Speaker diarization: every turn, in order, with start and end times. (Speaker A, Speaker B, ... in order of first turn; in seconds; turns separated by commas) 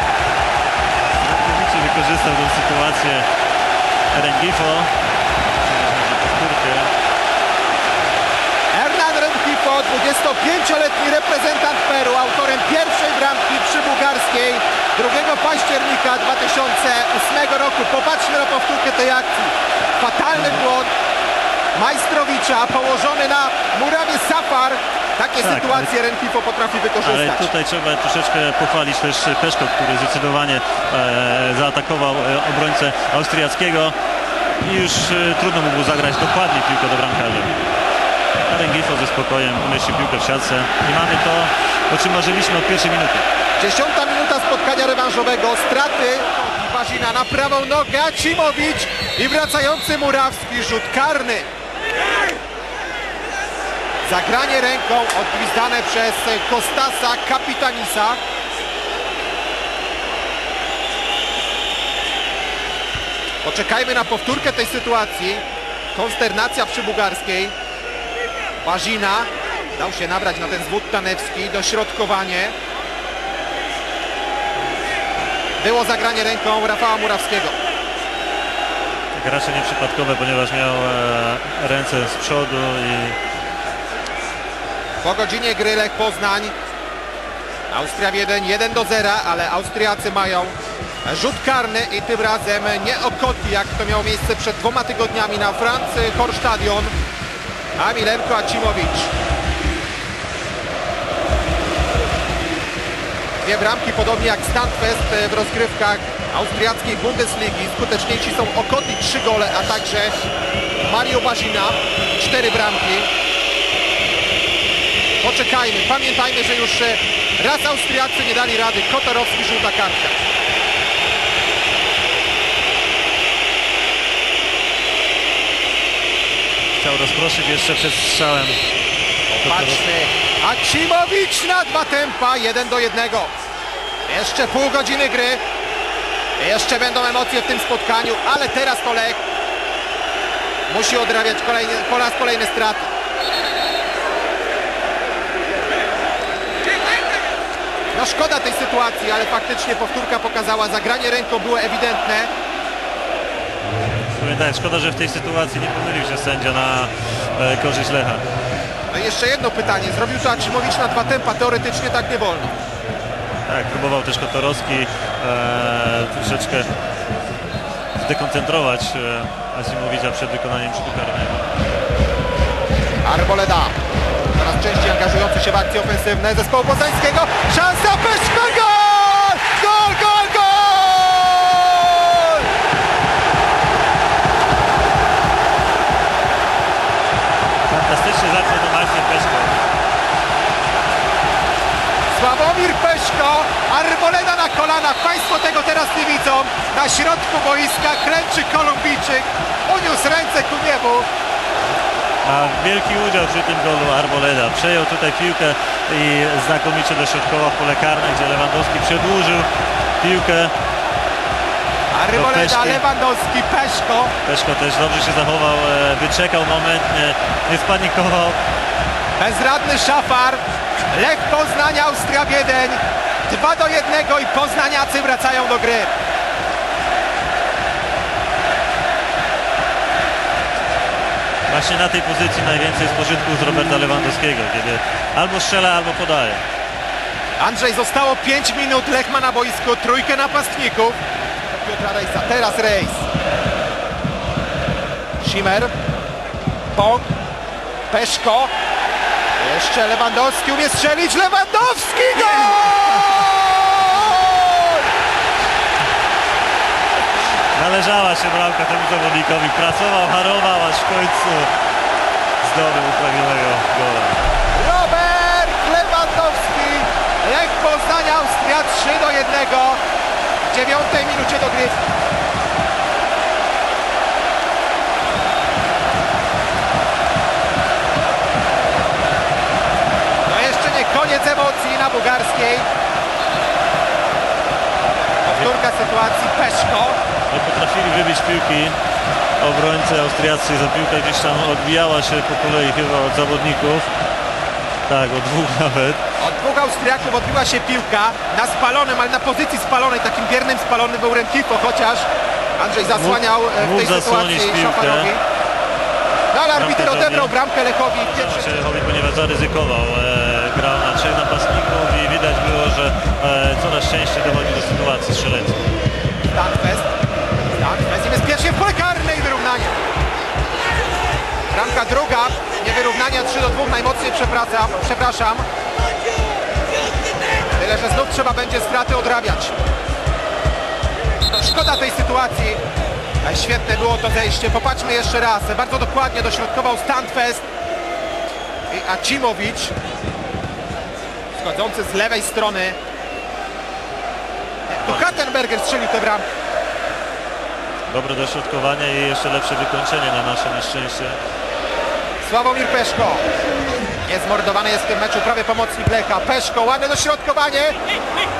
Speaker A: 1.2-3.3, Speaker A: 4.1-4.9, Speaker A: 5.6-6.9, Speaker B: 8.7-20.9, Speaker B: 21.8-27.5, Speaker A: 25.4-25.9, Speaker A: 27.0-34.0, Speaker A: 34.6-37.6, Speaker A: 38.5-43.2, Speaker B: 43.6-51.5, Speaker B: 54.1-58.2, Speaker B: 63.4-65.4, Speaker B: 66.0-67.5, Speaker B: 68.6-72.5, Speaker B: 75.6-77.5, Speaker A: 79.1-83.2, Speaker B: 85.0-86.5, Speaker B: 87.7-90.5, Speaker B: 91.1-96.9, Speaker B: 97.8-99.1, Speaker B: 103.4-110.1, Speaker B: 110.8-113.1, Speaker B: 115.2-120.2, Speaker A: 126.8-128.6, Speaker A: 129.3-129.8, Speaker B: 129.4-133.3, Speaker B: 134.1-135.4, Speaker B: 136.4-139.2, Speaker B: 140.7-142.9, Speaker B: 147.9-152.3, Speaker A: 154.1-158.2, Speaker B: 158.9-162.6, Speaker A: 163.5-166.7, Speaker A: 168.0-171.5, Speaker B: 173.0-173.8, Speaker B: 174.3-182.5, Speaker A: 187.7-189.6, Speaker B: 192.1-201.1, Speaker A: 202.2-209.5, Speaker A: 210.0-210.5, Speaker B: 211.9-214.1, Speaker A: 212.1-212.8, Speaker A: 214.2-218.4, Speaker B: 219.2-220.4, Speaker B: 220.9-225.9, Speaker A: 231.5-236.4, Speaker B: 237.4-243.0, Speaker B: 245.2-245.7, Speaker B: 246.7-247.1, Speaker B: 247.9-248.5, Speaker B: 249.4-254.8, Speaker A: 257.6-261.5, Speaker A: 262.4-264.2, Speaker B: 264.6-269.8, Speaker B: 270.5-271.8, Speaker B: 280.3-282.7, Speaker B: 285.2-287.0, Speaker A: 287.3-288.8, Speaker A: 289.4-293.9, Speaker A: 294.9-296.0, Speaker B: 296.2-305.2, Speaker A: 302.9-305.1, Speaker B: 306.3-308.7, Speaker A: 306.5-307.3, Speaker A: 308.0-315.6, Speaker B: 316.3-316.9, Speaker B: 317.6-319.8, Speaker B: 321.5-325.5, Speaker B: 327.6-329.6, Speaker B: 331.3-332.6, Speaker B: 333.2-337.4, Speaker B: 338.7-339.7, Speaker B: 341.4-342.8, Speaker B: 344.7-346.2, Speaker A: 344.9-345.2, Speaker A: 347.9-351.2, Speaker B: 352.2-353.2, Speaker B: 354.1-357.8